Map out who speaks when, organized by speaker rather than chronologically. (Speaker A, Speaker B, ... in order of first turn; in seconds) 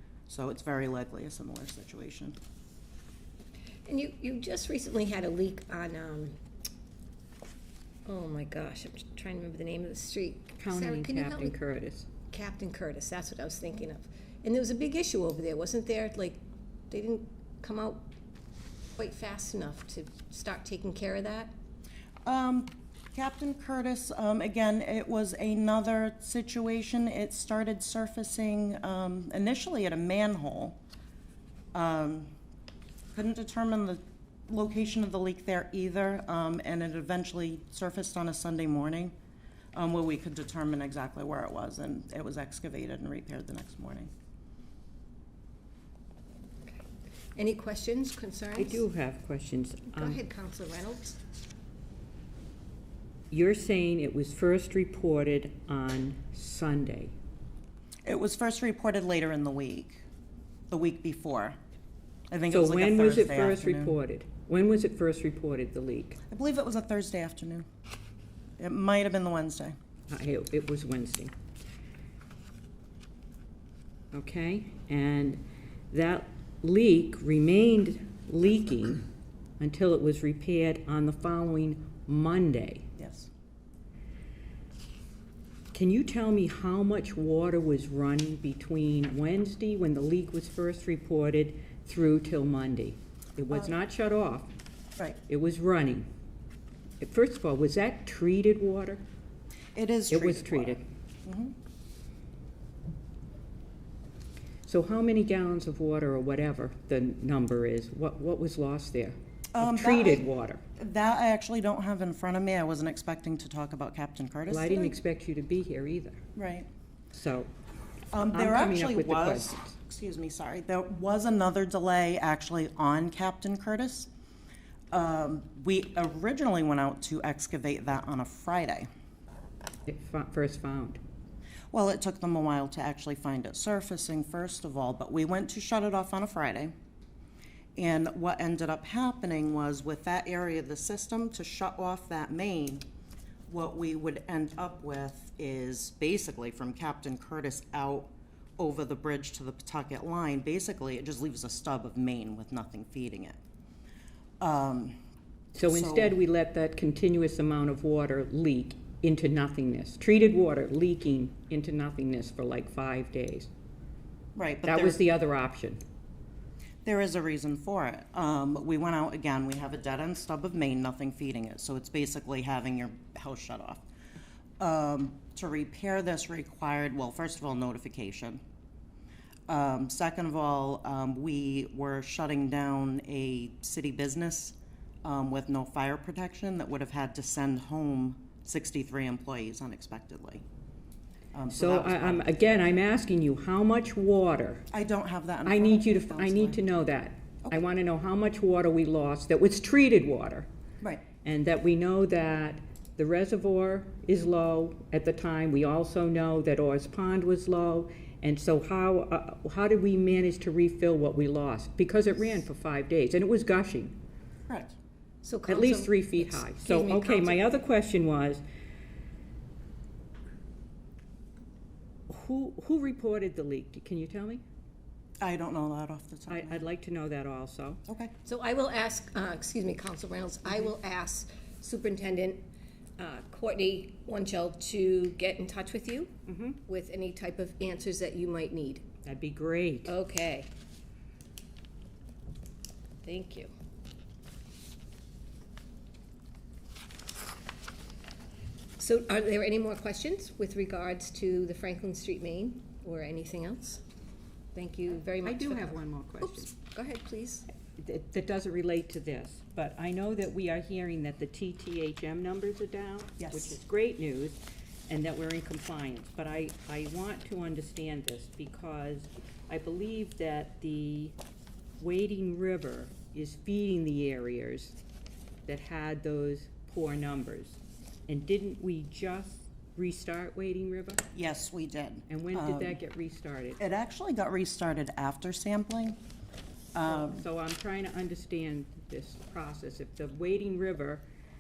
Speaker A: 0.3-2.4, 22.2-30.8, 31.7-32.3, 33.1-39.1, 39.7-44.1, 58.0-60.0, 60.7-61.6, 62.3-64.0, 66.3-67.7, 68.6-69.8, 83.0-83.3, 99.8-101.5, 109.5-110.2, 110.8-115.0, 116.3-116.7, 118.1-124.1, 124.9-128.9, 131.7-136.7, 137.8-142.8, 143.5-153.4, 154.4-155.0, 155.6-156.2, 164.4-165.0, 166.8-173.8, 174.6-178.4, 179.5-190.4, 191.3-192.6, 194.7-196.6, 214.5-214.8, 225.2-226.6, 227.9-228.1, 263.2-263.6, 281.1-282.8, 283.6-286.0, 286.8-287.2
Speaker B: 3.9-6.4, 8.1-11.6, 12.3-18.1, 19.0-21.5, 47.4-48.8, 49.9-51.2, 215.2-217.4, 228.2-232.4, 233.0-236.1, 236.7-238.8, 239.8-240.5, 243.0-243.5, 248.8-253.8, 254.5-257.5
Speaker C: 10.6-12.1, 48.6-50.2, 53.3-57.1, 62.5-66.2, 70.1-71.3, 74.1-79.1, 79.6-82.9, 85.7-94.5, 95.3-96.1, 97.0-99.0, 100.1-100.8, 104.7-110.6, 114.5-116.2, 117.1-117.5, 118.3-119.7, 129.9-131.0, 155.6-163.5, 164.6-165.8, 191.5-194.6, 195.4-200.5, 201.2-214.0, 215.5-218.4, 222.1-224.4, 226.3-227.8, 236.3-236.6, 239.0-239.9, 255.2-256.5, 257.8-271.1, 271.8-274.8, 275.5-281.0, 282.1-283.6, 286.9-291.0